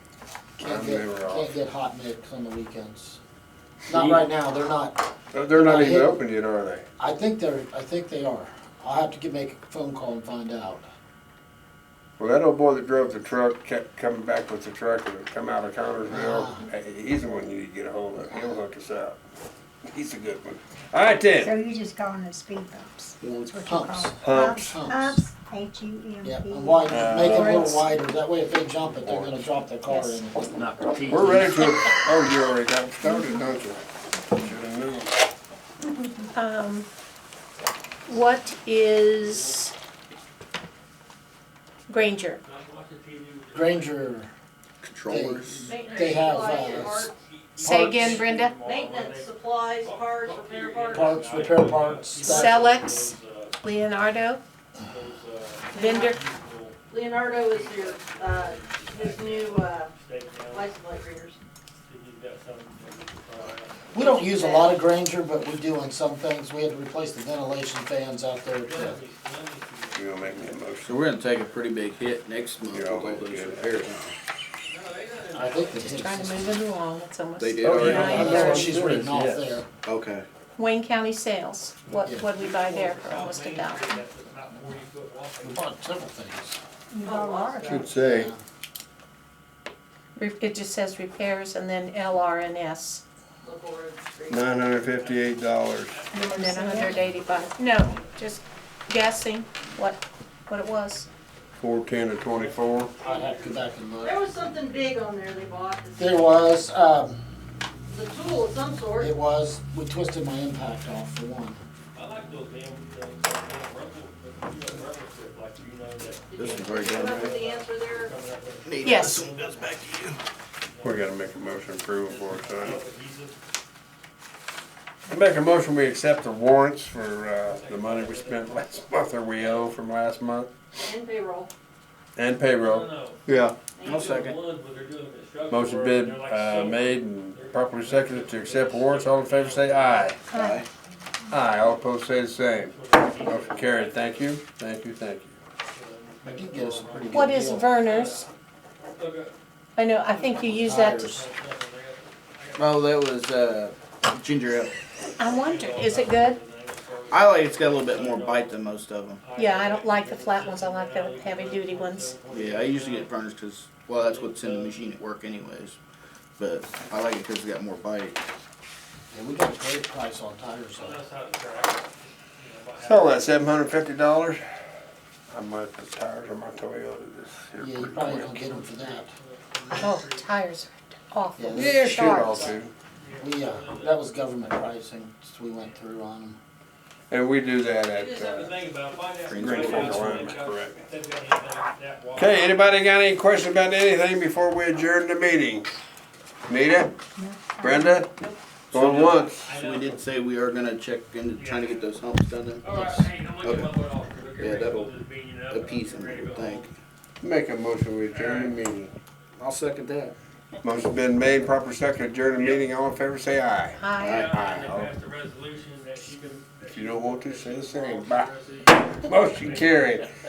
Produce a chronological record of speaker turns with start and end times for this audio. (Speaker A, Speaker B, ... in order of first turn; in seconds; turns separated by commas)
Speaker A: 0.6-3.2, Speaker B: 0.6-1.5, Speaker A: 3.9-6.2, Speaker C: 3.9-4.3, Speaker B: 5.3-6.9, Speaker A: 7.0-10.9, Speaker B: 12.2-19.2, Speaker A: 16.1-16.6, Speaker B: 19.9-21.5, Speaker D: 21.4-27.4, Speaker A: 23.2-25.2, Speaker B: 24.2-24.8, Speaker A: 26.2-31.5, Speaker B: 26.9-27.8, Speaker E: 27.3-27.9, Speaker B: 29.0-29.4, Speaker D: 29.9-30.2, Speaker C: 30.5-31.6, Speaker B: 31.1-35.1, Speaker E: 36.3-36.9, Speaker E: 38.1-39.7, Speaker C: 39.2-39.7, Speaker E: 41.9-42.4, Speaker C: 42.4-44.1, Speaker A: 43.5-44.3, Speaker F: 44.8-45.7, Speaker A: 45.1-48.5, Speaker C: 45.6-53.6, Speaker G: 45.6-47.1, Speaker E: 47.6-48.5, Speaker G: 48.6-51.2, Speaker A: 50.9-52.6, Speaker E: 52.2-54.4, Speaker C: 54.8-60.7, Speaker E: 55.7-56.2, Speaker G: 56.9-59.9, Speaker G: 60.5-61.4, Speaker C: 61.8-64.1, Speaker A: 63.9-69.0, Speaker C: 68.6-70.7, Speaker B: 69.9-71.0, Speaker F: 70.9-74.1, Speaker B: 72.7-73.9, Speaker C: 74.7-75.9, Speaker A: 75.3-76.6, Speaker E: 75.8-78.7, Speaker F: 77.4-78.4, Speaker B: 77.6-79.6, Speaker A: 77.8-79.7, Speaker F: 79.8-80.3, Speaker E: 80.6-84.0, Speaker C: 81.9-85.7, Speaker A: 85.4-86.6, Speaker D: 86.9-87.8, Speaker G: 87.0-87.9, Speaker B: 87.7-88.3, Speaker A: 87.9-88.4, Speaker E: 90.2-93.0, Speaker G: 93.4-94.5, Speaker B: 94.3-96.0, Speaker C: 94.9-98.4, Speaker D: 96.1-97.0, Speaker E: 96.3-101.1, Speaker B: 101.6-102.9, Speaker C: 102.2-103.7, Speaker A: 103.0-104.3, Speaker G: 104.0-106.5, Speaker A: 106.0-107.2, Speaker G: 107.9-109.1, Speaker A: 109.0-111.6, Speaker C: 111.9-123.4, Speaker G: 116.3-118.1, Speaker F: 116.4-117.4, Speaker F: 118.7-120.2, Speaker E: 118.8-119.2, Speaker B: 120.8-122.8, Speaker B: 125.1-130.5, Speaker C: 127.4-128.7, Speaker C: 129.3-129.7, Speaker G: 130.7-131.5, Speaker B: 132.2-133.6, Speaker C: 132.6-133.2, Speaker G: 133.8-134.1, Speaker F: 133.9-134.4, Speaker C: 133.9-140.3, Speaker B: 135.5-140.2, Speaker E: 140.3-140.6, Speaker F: 140.3-140.7, Speaker B: 141.3-145.4, Speaker C: 142.5-144.4, Speaker C: 145.7-148.3, Speaker A: 146.2-147.7, Speaker E: 147.1-148.3, Speaker C: 148.9-149.4, Speaker E: 149.8-151.2, Speaker C: 150.1-152.9, Speaker A: 150.6-151.2, Speaker F: 152.6-154.8, Speaker E: 155.2-156.4, Speaker C: 155.2-158.7, Speaker F: 157.1-159.3, Speaker C: 159.2-163.1, Speaker E: 159.3-162.2, Speaker F: 162.2-165.8, Speaker C: 163.9-164.8, Speaker F: 166.4-168.2, Speaker A: 169.1-171.0, Speaker C: 170.8-173.5, Speaker B: 172.8-174.4, Speaker B: 175.3-178.4, Speaker A: 177.6-179.1, Speaker C: 178.2-180.3, Speaker E: 179.8-182.6, Speaker A: 181.4-181.8, Speaker B: 181.5-182.7, Speaker C: 181.7-184.1, Speaker A: 183.2-186.4, Speaker B: 187.1-188.6, Speaker C: 187.9-192.6, Speaker F: 189.3-190.3, Speaker B: 189.3-190.9, Speaker B: 192.2-195.7, Speaker B: 196.5-197.0, Speaker D: 197.2-198.0, Speaker B: 197.6-198.1, Speaker B: 198.7-199.5, Speaker F: 198.7-203.8, Speaker C: 198.8-200.1, Speaker C: 201.3-202.0, Speaker C: 202.6-206.7, Speaker F: 204.4-204.9, Speaker F: 205.5-206.7, Speaker B: 207.2-208.9, Speaker C: 208.1-208.6, Speaker F: 209.3-210.1, Speaker B: 210.6-214.9, Speaker C: 212.3-212.7, Speaker E: 213.8-214.3, Speaker F: 214.0-214.4, Speaker C: 214.0-220.1, Speaker B: 216.7-218.3, Speaker B: 219.0-220.1